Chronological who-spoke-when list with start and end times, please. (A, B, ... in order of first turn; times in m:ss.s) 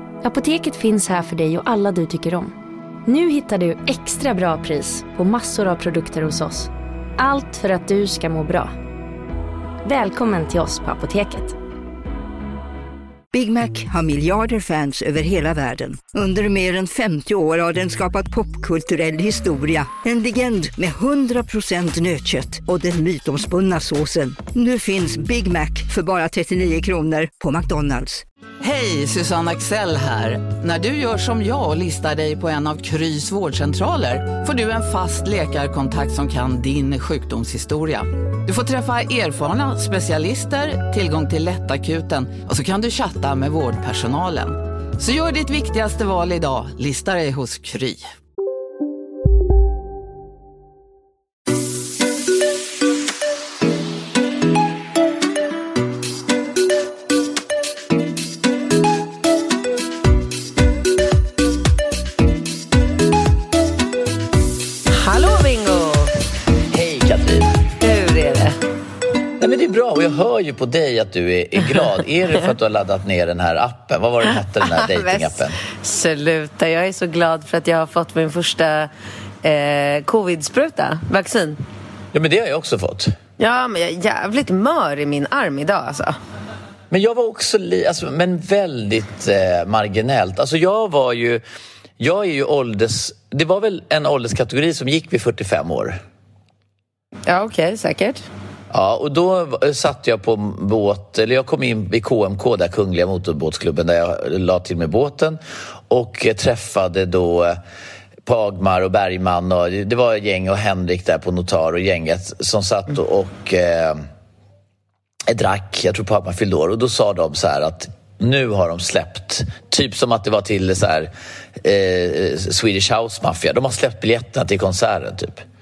0:00.2-0:02.5 A
0:03.0-0:08.7 A
0:09.8-0:11.6 A
0:13.3-0:28.2 B
0:28.6-0:48.0 C
1:04.9-1:06.1 D
1:06.7-1:07.6 E
1:07.8-1:08.6 D
1:09.4-1:15.6 E
1:14.7-1:18.9 D
1:19.4-1:21.6 D
1:22.1-1:23.1 E
1:23.4-1:26.2 D
1:26.9-1:31.4 E
1:32.0-1:36.0 E
1:37.3-1:38.2 D
1:38.7-1:47.6 E
1:48.2-1:54.0 E
1:55.3-2:05.4 E